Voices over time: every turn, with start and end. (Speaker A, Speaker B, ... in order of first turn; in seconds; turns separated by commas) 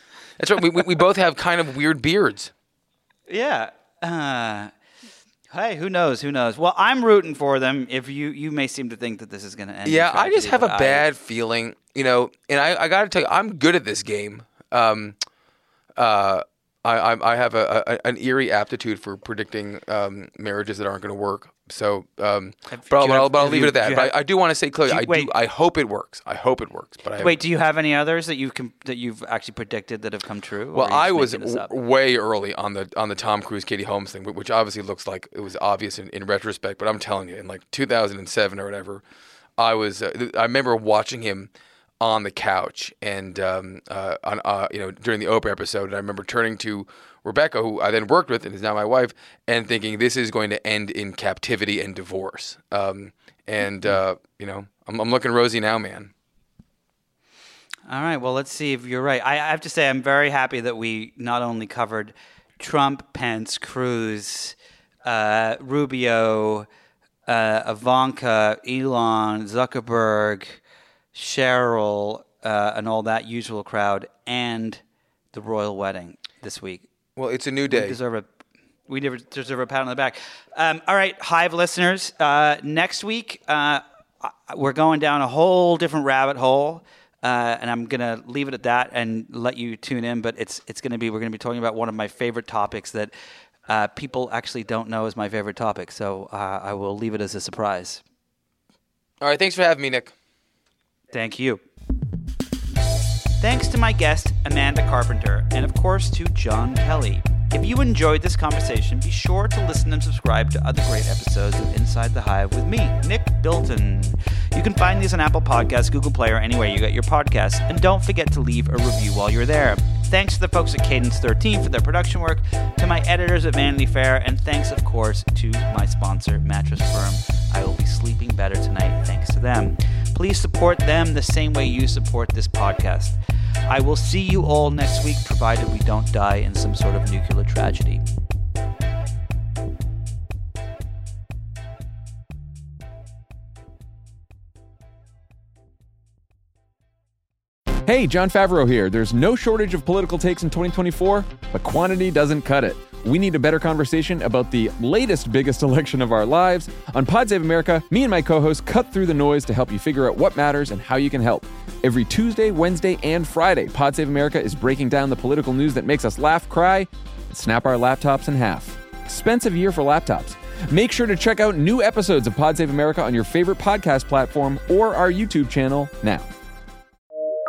Speaker A: 0.4-2.5, Speaker B: 3.3-4.7, Speaker B: 5.5-11.1, Speaker A: 9.8-15.2, Speaker A: 15.9-27.4, Speaker B: 22.7-24.2, Speaker B: 24.9-25.3, Speaker B: 27.2-31.7, Speaker A: 30.7-39.0, Speaker A: 39.6-56.1, Speaker B: 57.9-66.7, Speaker B: 67.3-70.6, Speaker B: 71.1-74.8, Speaker B: 75.3-76.9, Speaker A: 77.2-78.0, Speaker B: 77.7-78.3, Speaker B: 78.9-93.1, Speaker B: 93.7-98.0, Speaker A: 99.2-100.1, Speaker B: 101.1-101.6, Speaker B: 103.4-133.2, Speaker B: 133.7-138.0, Speaker C: 147.8-176.3